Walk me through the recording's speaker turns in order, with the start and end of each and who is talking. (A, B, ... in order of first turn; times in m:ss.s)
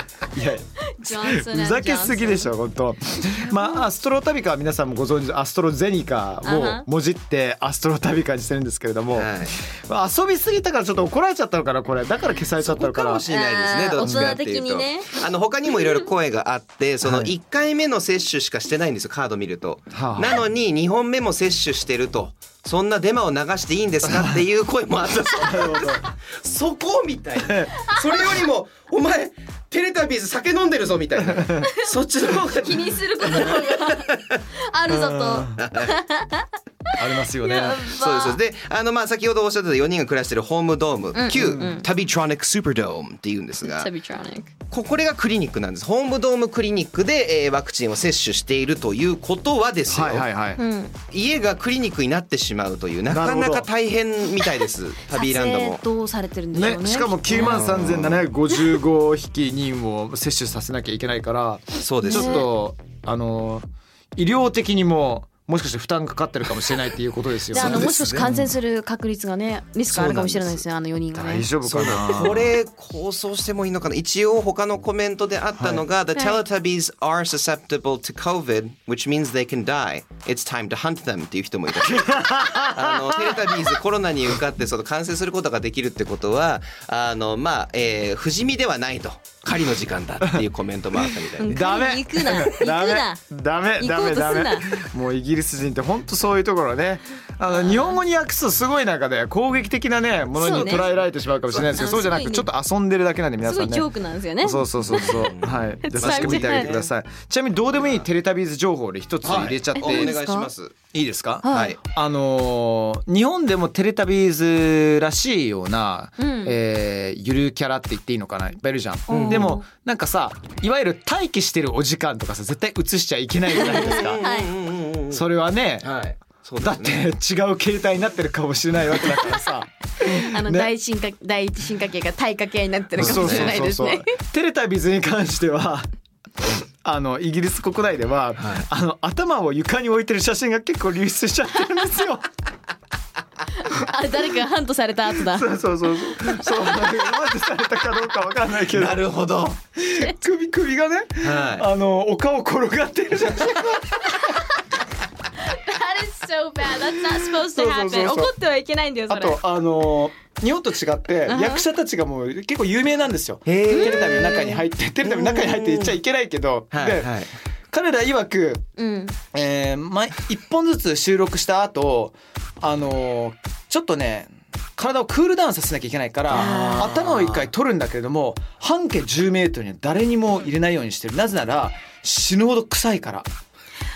0:00.3-0:13.3 A
0:01.0-0:02.5 B
0:06.4-0:06.9 B
0:09.1-0:09.6 C
0:12.6-0:34.4 C
0:13.3-0:15.2 B
0:14.0-0:14.4 A
0:17.0-0:17.3 A
0:19.9-0:20.4 A
0:24.0-0:24.4 A
0:25.4-0:26.1 A
0:27.4-0:27.7 A
0:31.2-0:31.7 A
0:32.5-0:36.5 B
0:34.9-0:35.6 A
0:35.6-0:36.0 C
0:37.0-0:37.9 A
0:37.2-0:38.4 B
0:37.9-0:43.9 C
0:41.1-0:41.9 B
0:41.4-0:41.7 A
0:43.6-0:44.5 B
0:44.7-0:50.3 C
0:49.9-0:50.6 A
0:50.6-0:50.9 B
0:51.1-0:55.8 C
0:53.1-0:53.7 A
0:55.1-0:57.7 B
0:56.5-1:08.5 A
0:57.3-0:58.2 C
1:01.8-1:02.4 C
1:02.0-1:02.5 B
1:07.5-1:12.3 B
1:07.5-1:08.3 C
1:09.9-1:10.6 C
1:11.1-1:12.6 A
1:11.6-1:31.6 C
1:15.6-1:15.9 A
1:16.2-1:16.4 B
1:21.8-1:23.8 A
1:31.4-1:33.2 B
1:31.5-1:43.9 A
1:33.8-1:34.8 B
1:40.4-1:42.5 B
1:40.5-1:40.9 C
1:43.4-1:46.8 B
1:44.4-1:50.2 A
1:44.8-1:46.9 C
1:47.8-1:48.0 C
1:49.2-1:50.8 C
1:49.8-1:50.5 B
1:50.9-2:04.2 A
1:51.4-1:51.7 B
1:51.5-1:51.8 C
1:56.2-1:56.6 B
1:59.1-1:59.6 B
1:59.1-1:59.6 C
2:03.6-2:05.2 C
2:03.8-2:04.5 B
2:05.1-2:05.9 A
2:05.8-2:07.1 C
2:06.6-2:10.7 A
2:10.0-2:14.1 B
2:13.0-2:15.9 A
2:13.0-2:13.6 C
2:16.8-2:22.3 A
2:18.4-2:18.7 C
2:23.6-2:25.6 B
2:25.2-2:29.1 A
2:28.7-2:29.6 C
2:29.8-2:34.2 A
2:31.2-2:31.7 C
2:35.4-2:39.4 B
2:37.2-2:38.3 A
2:39.1-2:47.2 A
2:41.3-2:41.6 B
2:43.5-2:44.4 C
2:43.7-2:44.6 B
2:45.0-2:46.0 C
2:46.7-2:47.3 C
2:47.7-2:48.6 A
2:48.8-2:49.2 B
2:49.3-3:03.3 A
2:56.3-2:57.0 B
2:56.3-2:57.5 C